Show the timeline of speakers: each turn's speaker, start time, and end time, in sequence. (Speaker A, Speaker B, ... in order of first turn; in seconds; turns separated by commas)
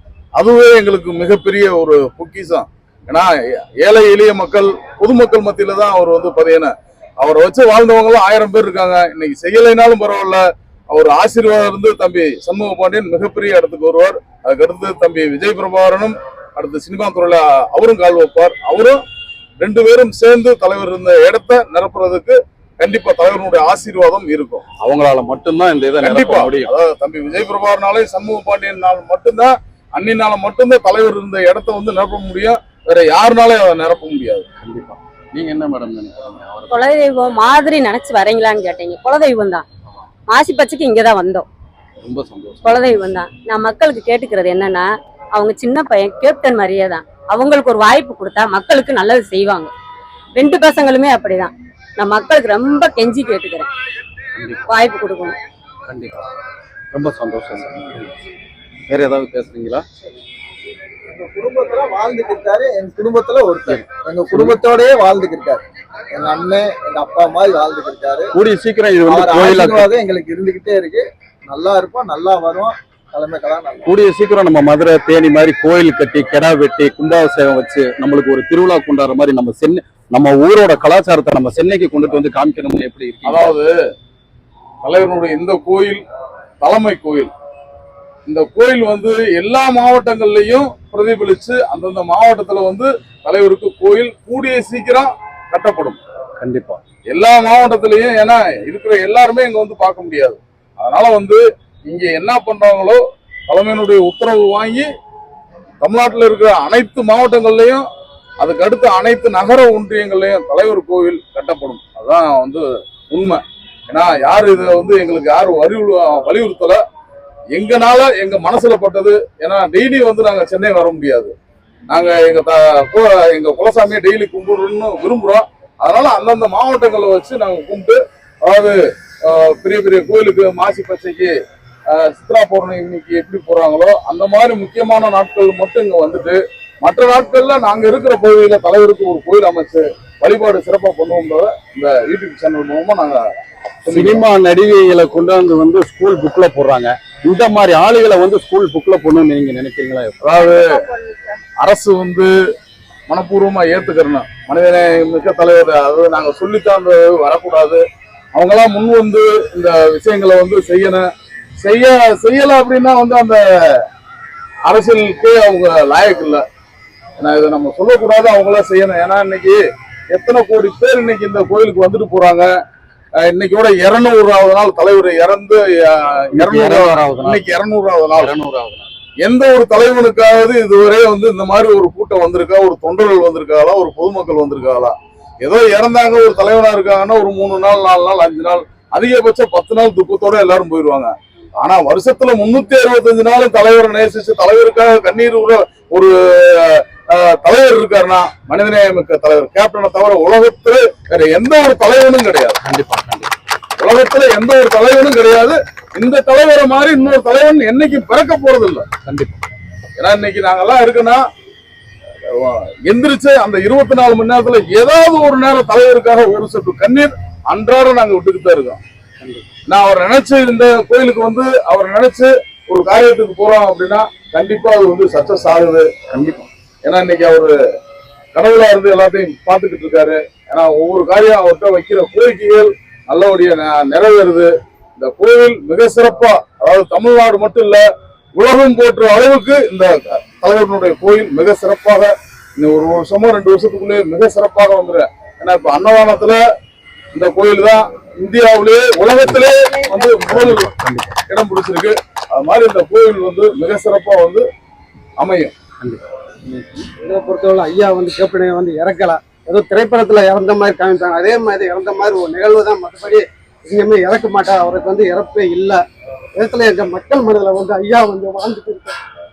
Speaker A: 0.4-19.0, Speaker A: 19.6-24.6, Speaker B: 24.8-26.7, Speaker A: 26.0-34.4, Speaker B: 34.6-36.9, Speaker C: 36.7-39.6, Speaker C: 40.3-41.5, Speaker B: 42.0-43.0, Speaker C: 42.6-49.7, Speaker C: 50.3-53.7, Speaker B: 54.4-54.6, Speaker C: 54.7-55.4, Speaker B: 55.9-56.2, Speaker B: 56.9-58.1, Speaker B: 58.9-59.8, Speaker D: 61.1-68.3, Speaker B: 63.7-64.6, Speaker B: 68.3-69.9, Speaker D: 69.0-73.9, Speaker B: 73.9-83.5, Speaker A: 83.2-83.7, Speaker A: 84.8-86.0, Speaker A: 86.6-87.3, Speaker A: 88.3-96.0, Speaker B: 96.4-96.8, Speaker A: 97.1-104.8, Speaker A: 105.8-107.8, Speaker A: 108.4-116.8, Speaker A: 117.5-121.3, Speaker A: 121.9-131.3, Speaker A: 131.9-143.2, Speaker A: 143.8-144.2, Speaker B: 143.9-150.2, Speaker A: 150.2-150.8, Speaker C: 150.5-151.2, Speaker A: 151.6-152.3, Speaker A: 153.1-157.8, Speaker A: 158.3-161.0, Speaker A: 161.6-163.8, Speaker A: 164.7-166.4, Speaker A: 167.2-169.6, Speaker A: 170.1-172.5, Speaker A: 173.2-178.3, Speaker B: 176.3-177.5, Speaker B: 178.1-178.9, Speaker A: 179.2-202.6, Speaker B: 202.6-203.3, Speaker A: 203.8-208.8, Speaker B: 209.0-209.4, Speaker A: 210.0-211.2, Speaker A: 212.3-218.8, Speaker B: 219.2-219.5, Speaker A: 219.7-225.9, Speaker B: 226.1-226.5, Speaker A: 226.8-227.5, Speaker A: 228.3-237.8, Speaker A: 238.3-246.4, Speaker A: 247.1-250.7, Speaker B: 250.2-251.1, Speaker A: 251.3-254.4, Speaker A: 255.2-255.5, Speaker B: 255.8-256.9, Speaker E: 257.0-265.8, Speaker E: 266.4-268.9